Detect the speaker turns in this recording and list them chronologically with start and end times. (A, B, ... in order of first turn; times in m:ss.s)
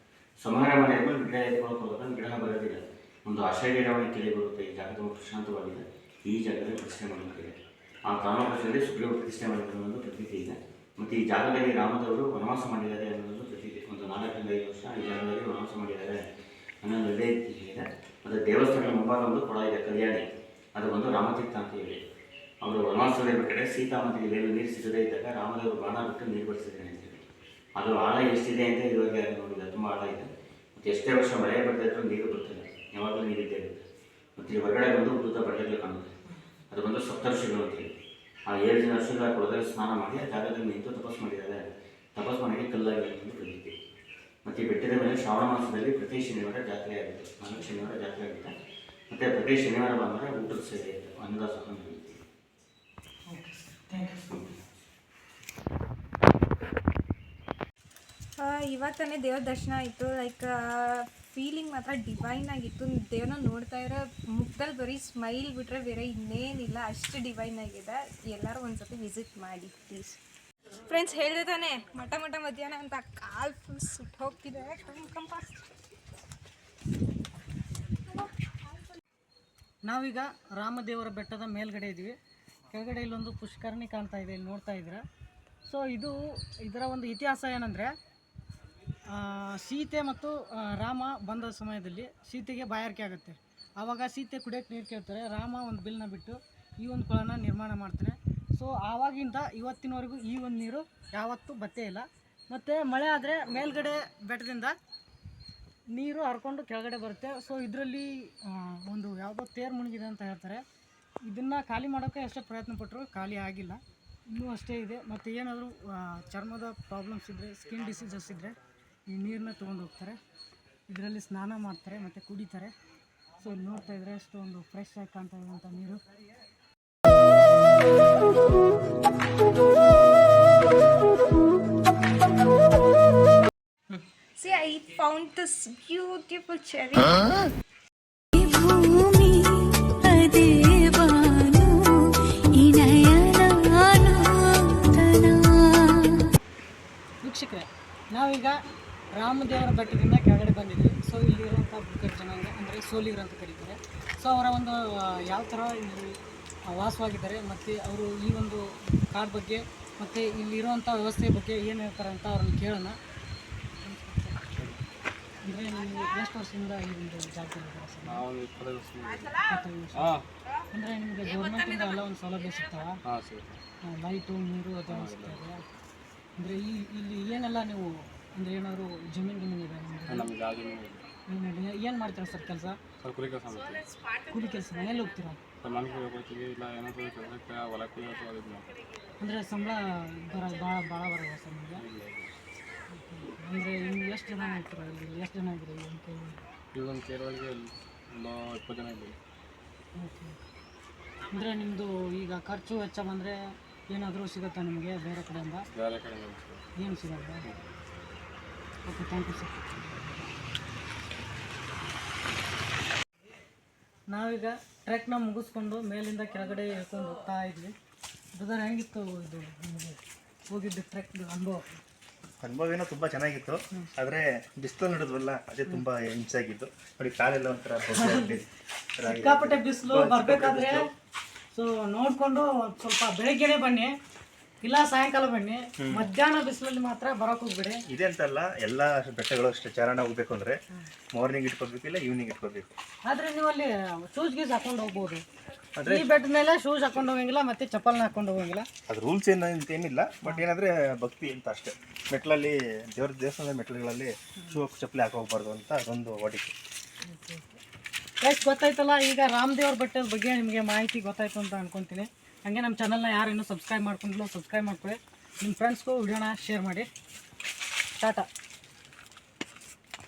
0:00.4-0:16.2 A
0:16.8-0:22.0 A
0:22.6-0:27.2 A
0:27.8-0:33.8 A
0:34.4-0:36.1 A
0:36.7-0:37.9 A
0:38.5-0:41.6 A
0:42.1-0:43.7 A
0:44.4-0:48.5 A
0:49.1-0:52.2 A
0:53.3-0:54.4 B
0:58.4-1:10.2 C
1:10.9-1:15.6 C
1:19.9-1:22.1 B
1:22.7-1:25.0 B
1:25.7-1:27.9 B
1:29.1-1:44.8 B
1:45.9-1:50.6 B
1:51.3-1:58.6 B
1:59.1-2:00.2 B
2:00.9-2:02.7 B
2:03.4-2:06.0 B
2:14.4-2:17.2 C
2:18.4-2:22.0 D
2:22.6-2:26.1 D
2:27.2-2:28.6 B
2:29.1-2:36.2 B
2:36.7-2:43.0 B
2:43.8-2:44.4 B
2:45.4-2:48.2 B
2:48.0-2:50.2 E
2:49.4-2:50.2 B
2:50.7-2:53.0 B
2:53.0-2:53.6 E
2:53.8-2:55.6 B
2:54.9-2:55.5 E
2:56.4-3:00.3 B
3:00.1-3:01.0 E
3:01.3-3:02.8 B
3:03.0-3:03.9 E
3:04.3-3:05.4 B
3:05.6-3:08.7 E
3:09.2-3:11.8 B
3:11.8-3:12.3 E
3:12.9-3:16.4 B
3:16.7-3:19.2 E
3:20.0-3:20.4 B
3:21.3-3:23.4 B
3:23.9-3:25.6 B
3:25.7-3:26.6 E
3:26.8-3:27.4 B
3:28.9-3:29.6 B
3:34.1-3:37.7 B
3:38.4-3:41.8 B
3:42.4-3:48.4 F
3:48.0-3:48.4 B
3:49.0-3:50.9 F
3:49.1-3:50.9 B
3:51.5-3:53.9 B
3:54.6-3:57.8 B
3:55.8-3:56.1 F
3:57.9-4:00.6 F
4:01.1-4:02.6 F
4:03.1-4:05.2 B
4:05.8-4:06.1 F
4:05.8-4:08.7 B
4:08.9-4:16.5 F
4:17.0-4:17.6 B
4:18.2-4:26.9 B
4:28.0-4:28.3 B